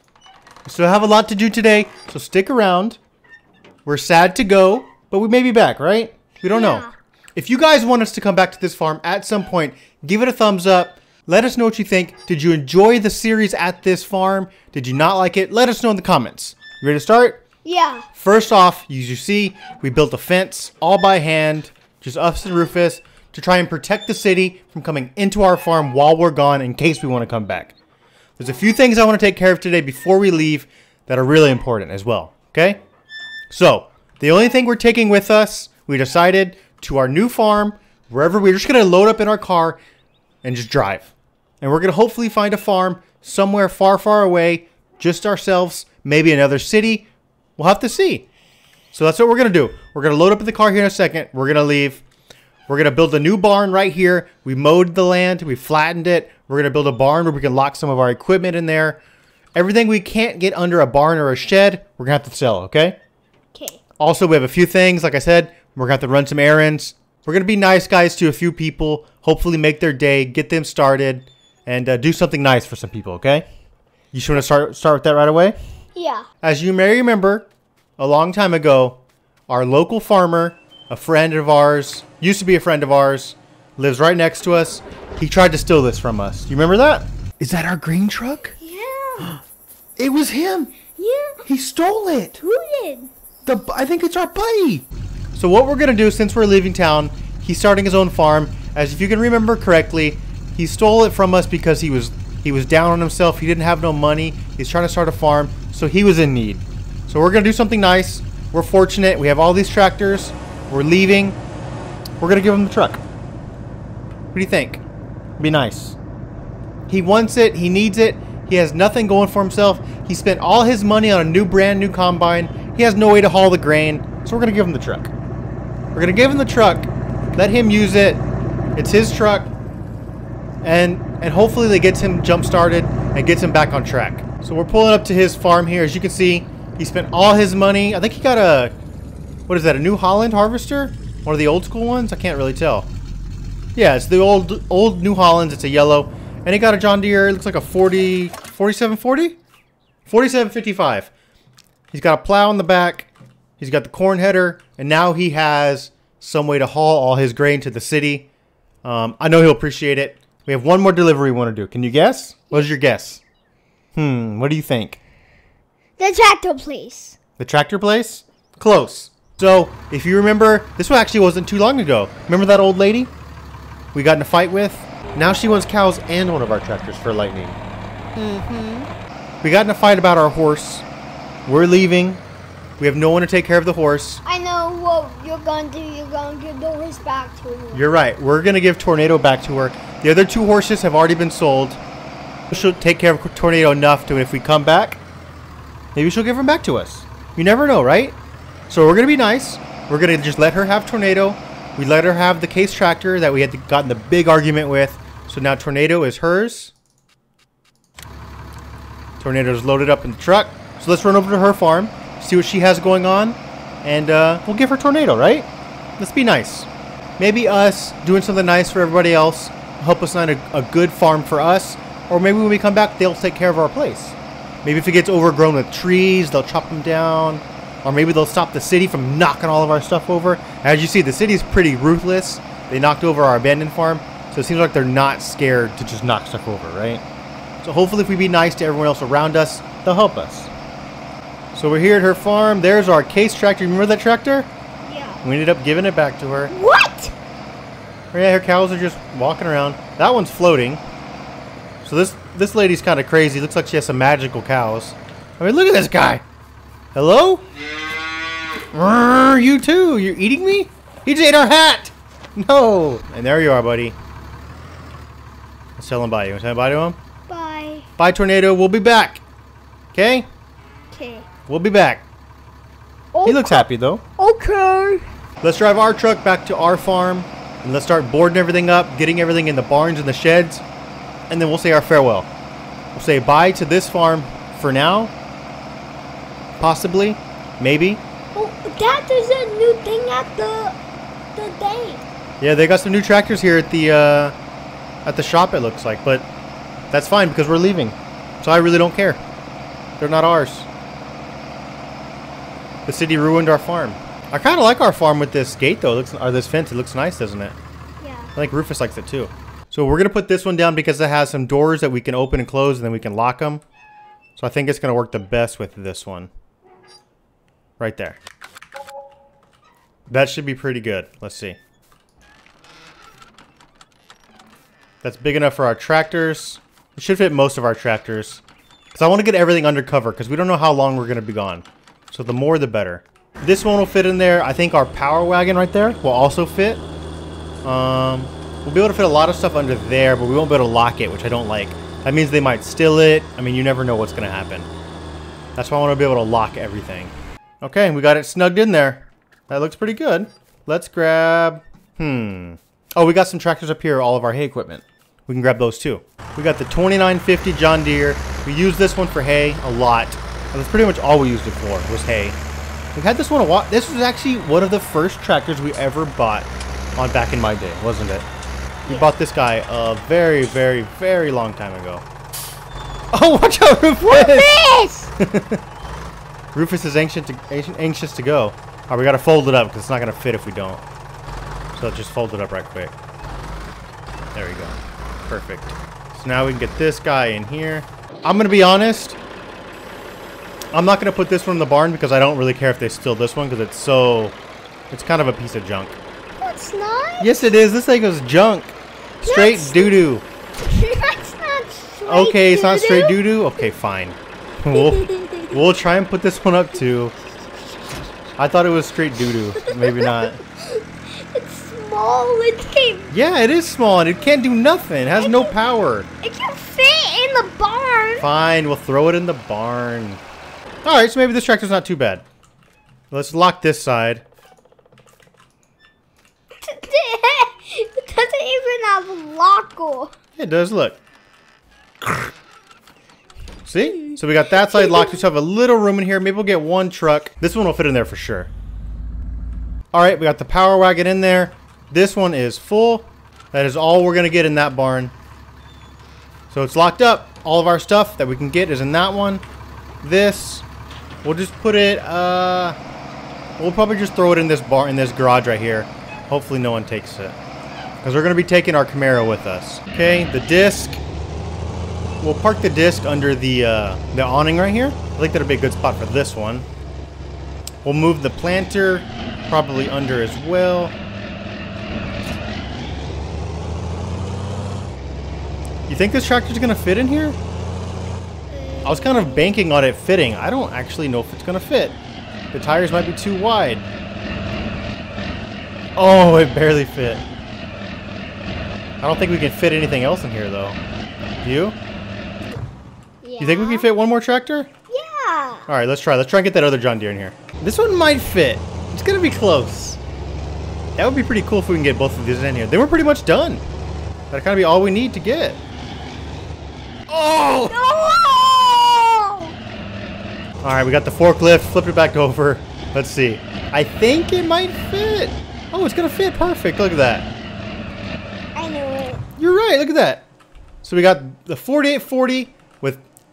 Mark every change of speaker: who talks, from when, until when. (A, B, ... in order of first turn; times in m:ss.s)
0:00.6-0:03.0 A
0:03.8-0:17.4 A
0:06.5-0:06.9 B
0:17.6-0:18.1 B
0:18.1-0:27.7 A
0:28.4-0:32.8 A
0:33.5-0:39.8 A
0:40.4-0:47.0 A
0:47.6-0:48.2 A
0:48.9-0:52.0 A
0:52.7-0:59.0 A
0:59.5-1:03.0 A
1:03.5-1:03.8 B
1:04.0-1:13.4 A
1:14.1-1:15.6 A
1:15.9-1:16.2 B
1:16.4-1:17.5 A
1:18.0-1:28.5 A
1:28.6-1:29.3 B
1:30.0-1:30.7 A
1:30.9-1:31.4 B
1:31.5-1:32.4 A
1:32.4-1:33.1 B
1:33.4-1:51.4 A
1:52.2-1:53.0 A
1:54.3-1:54.8 A
1:55.4-1:56.0 A
1:56.9-2:05.1 A
2:05.9-2:09.5 A
2:10.6-2:18.7 A
2:19.5-2:22.9 A
2:23.7-2:29.4 A
2:30.0-2:31.1 A
2:31.9-2:38.3 A
2:38.8-2:43.2 A
2:43.9-2:45.0 A
2:46.0-2:47.2 B
2:47.4-2:53.1 A
2:53.9-2:57.6 A
2:58.2-2:58.9 B
2:59.4-3:00.8 A
3:01.4-3:02.2 A
3:02.8-3:04.2 A
3:04.2-3:07.9 B
3:07.7-3:11.8 A
3:12.5-3:15.0 A
3:15.9-3:18.2 A
3:18.7-3:26.7 A
3:29.2-3:57.0 A
3:57.6-4:00.5 A
4:01.5-4:04.5 A
4:04.8-4:05.2 B
4:05.2-4:06.5 A
4:06.5-4:07.1 B
4:08.1-4:10.8 A
4:11.8-4:16.2 A
4:16.9-4:17.4 A
4:18.7-4:24.0 A
4:25.8-4:27.0 A
4:27.3-4:27.9 B
4:28.0-4:29.2 A
4:29.9-4:30.3 A
4:30.9-4:31.2 B
4:31.5-4:32.0 A
4:33.1-4:35.0 B
4:33.2-4:34.0 A
4:35.4-4:40.6 A
4:41.3-4:42.3 A
4:42.9-4:45.1 A
4:46.6-4:48.0 A
4:48.3-4:50.8 B
4:51.3-4:52.0 B
4:52.4-4:54.3 A
4:55.0-4:56.3 A
4:56.9-4:59.2 A
5:00.0-5:00.7 A
5:02.8-5:07.6 A
5:08.0-5:08.3 B
5:08.4-5:13.6 A
5:14.4-5:16.3 A
5:17.8-5:18.2 A
5:20.1-5:21.6 A
5:25.0-5:28.4 A
5:28.9-5:36.8 A
5:37.6-5:44.7 A
5:45.6-6:02.4 A
6:02.9-6:08.2 A
6:08.9-6:12.0 A
6:13.1-6:14.6 A
6:14.1-6:15.1 B
6:15.2-6:15.6 A
6:16.5-6:20.8 A
6:21.7-6:22.9 A
6:24.3-6:29.2 A
6:30.7-6:34.4 A
6:34.9-6:36.0 A
6:36.4-6:37.4 B
6:37.2-6:40.2 A
6:39.2-6:40.0 B
6:40.6-6:43.2 B
6:42.1-6:47.1 A
6:44.7-6:45.6 B
6:48.4-6:50.4 A
6:49.6-6:53.1 B
6:53.1-6:56.1 A
6:55.1-6:55.6 B
6:56.2-6:58.3 B
6:58.2-7:00.2 A
7:00.8-7:02.2 A
7:03.1-7:04.2 A
7:06.6-7:10.1 B
7:10.4-7:11.0 A
7:13.6-7:18.5 A
7:14.1-7:15.2 B
7:19.9-7:25.1 A
7:26.5-7:29.4 A
7:30.0-7:30.6 A
7:31.2-7:32.8 A
7:33.6-7:37.4 A
7:38.0-7:41.0 A
7:42.2-7:46.7 A
7:47.8-7:51.0 A
7:55.9-7:57.4 A
7:58.5-7:59.6 B
7:58.8-8:02.0 A
8:02.5-8:03.8 A
8:06.0-8:07.2 A
8:09.0-8:10.8 A
8:11.4-8:11.8 A
8:13.2-8:13.9 B
8:13.4-8:14.7 A
8:14.9-8:15.6 B
8:15.7-8:20.0 A
8:21.0-8:23.6 A
8:24.3-8:25.6 A
8:27.1-8:27.7 A
8:27.7-8:29.5 B
8:30.6-8:37.3 A
8:38.5-8:39.2 B
8:39.4-8:40.2 A
8:40.8-8:43.0 A